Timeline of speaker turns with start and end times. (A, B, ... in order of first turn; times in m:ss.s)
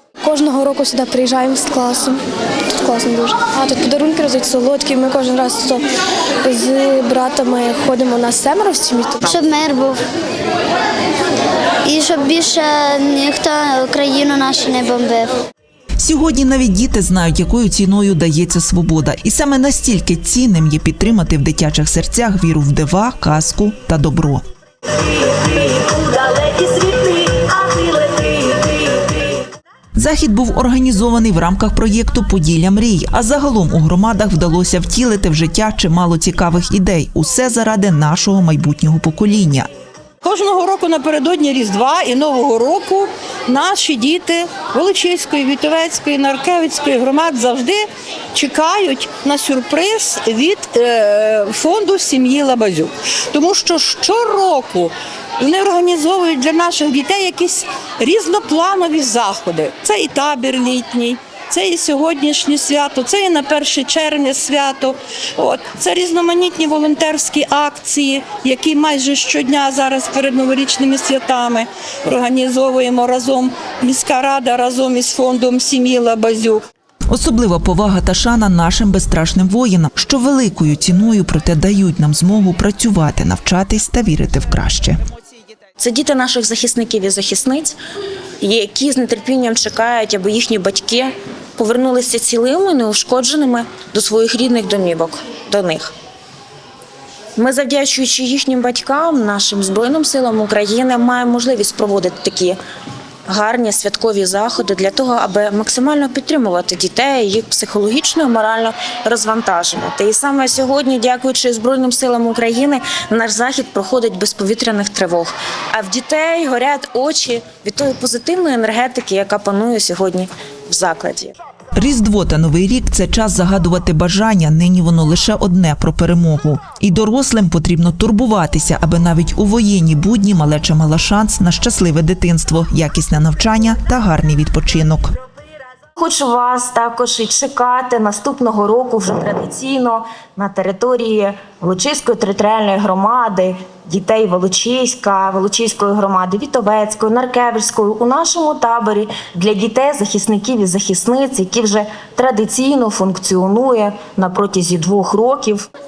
0:00.2-0:02.2 A
0:02.7-0:05.8 A
0:06.4-0:09.3 A
0:09.2-0:10.0 B
0:11.8-0:15.3 B
0:16.0-0:24.4 C
0:29.9-0:39.7 C
0:40.2-1:16.6 D
1:17.1-1:25.0 C
1:25.8-1:27.8 E
1:28.4-1:35.9 E
1:37.4-1:42.6 E
1:43.3-2:01.3 E
2:01.8-2:15.1 C
2:16.0-2:35.6 E